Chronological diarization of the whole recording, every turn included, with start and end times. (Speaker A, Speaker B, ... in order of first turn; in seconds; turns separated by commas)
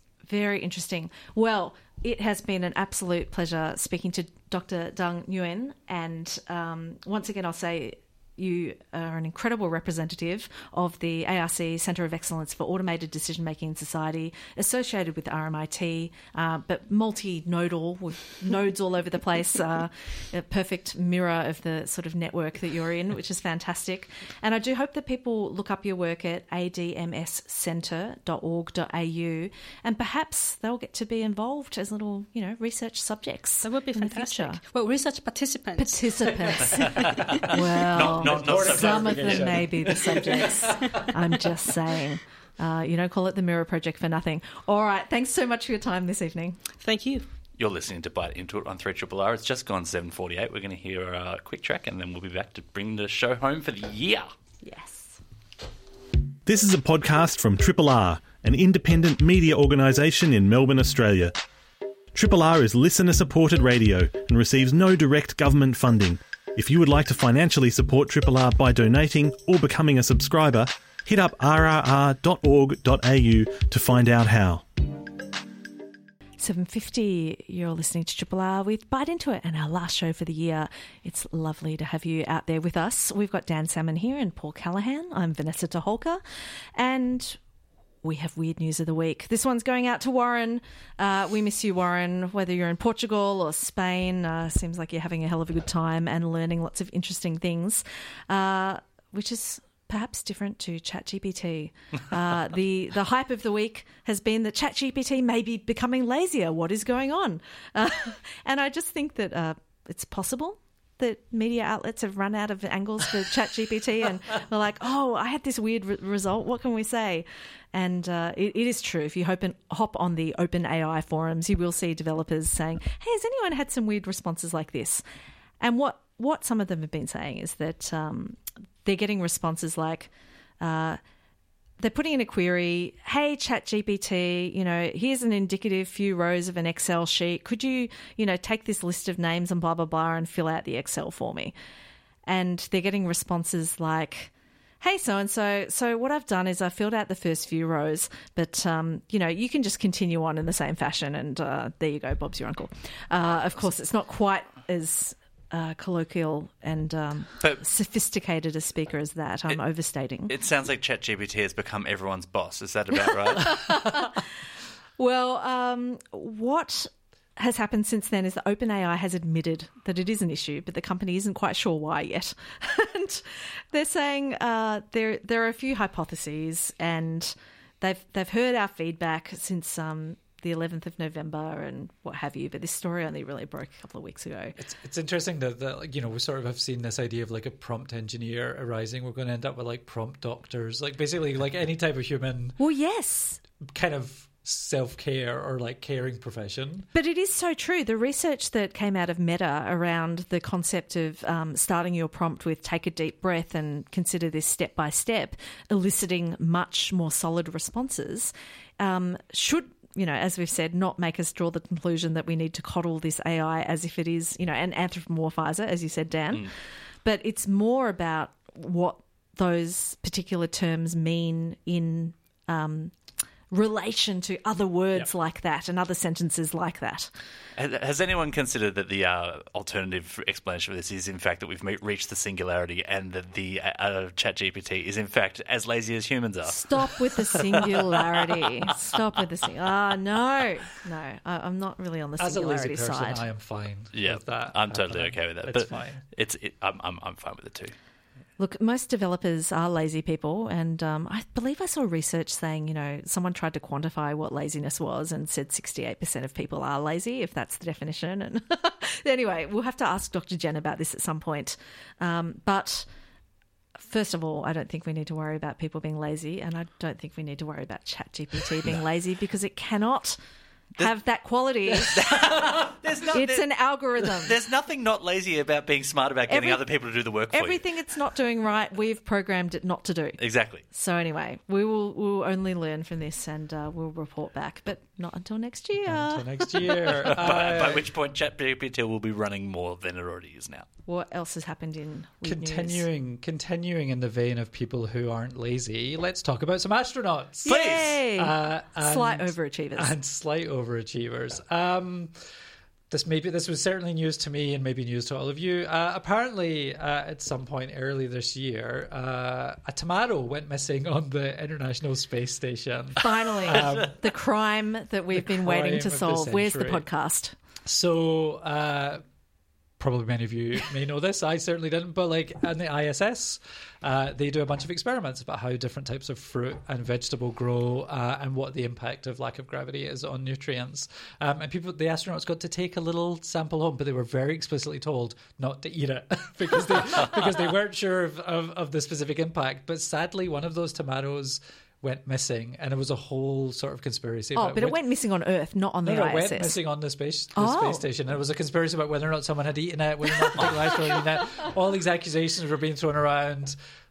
Speaker A: 0.2-34.6, Speaker B: 33.6-36.1, Speaker A: 35.8-46.6, Speaker C: 36.3-41.1, Speaker D: 36.9-39.9, Speaker B: 40.8-41.1, Speaker B: 46.8-47.3, Speaker D: 47.6-54.3, Speaker A: 54.6-55.2, Speaker E: 56.5-61.3, Speaker E: 62.1-74.6, Speaker A: 76.4-86.2, Speaker A: 86.8-87.4, Speaker A: 88.0-125.0, Speaker A: 125.6-131.0, Speaker A: 131.8-141.5, Speaker A: 142.3-160.3, Speaker D: 160.3-164.0, Speaker A: 163.3-164.3, Speaker A: 165.0-184.6, Speaker C: 184.6-192.6, Speaker A: 192.6-193.4, Speaker C: 193.6-196.9, Speaker A: 196.9-223.0, Speaker A: 223.5-227.1, Speaker D: 227.6-238.8, Speaker A: 236.4-243.2, Speaker C: 242.2-246.0, Speaker D: 243.9-247.7, Speaker A: 248.4-262.9, Speaker A: 263.8-270.2, Speaker A: 270.8-272.3, Speaker D: 271.7-273.5, Speaker A: 273.1-274.4, Speaker D: 274.0-277.7, Speaker A: 276.3-276.6, Speaker A: 277.3-280.2, Speaker D: 280.2-280.6, Speaker A: 280.7-287.0, Speaker C: 285.9-287.9, Speaker D: 287.0-290.7, Speaker A: 290.9-292.9, Speaker C: 292.2-302.1, Speaker A: 297.4-299.9, Speaker D: 297.5-298.0, Speaker C: 302.9-314.0, Speaker A: 313.0-317.4, Speaker D: 313.5-313.9, Speaker C: 315.1-316.8, Speaker C: 317.7-319.0, Speaker C: 319.8-344.8, Speaker A: 344.4-346.6, Speaker C: 345.9-353.6, Speaker A: 347.3-347.9, Speaker A: 350.1-351.2, Speaker D: 350.4-350.6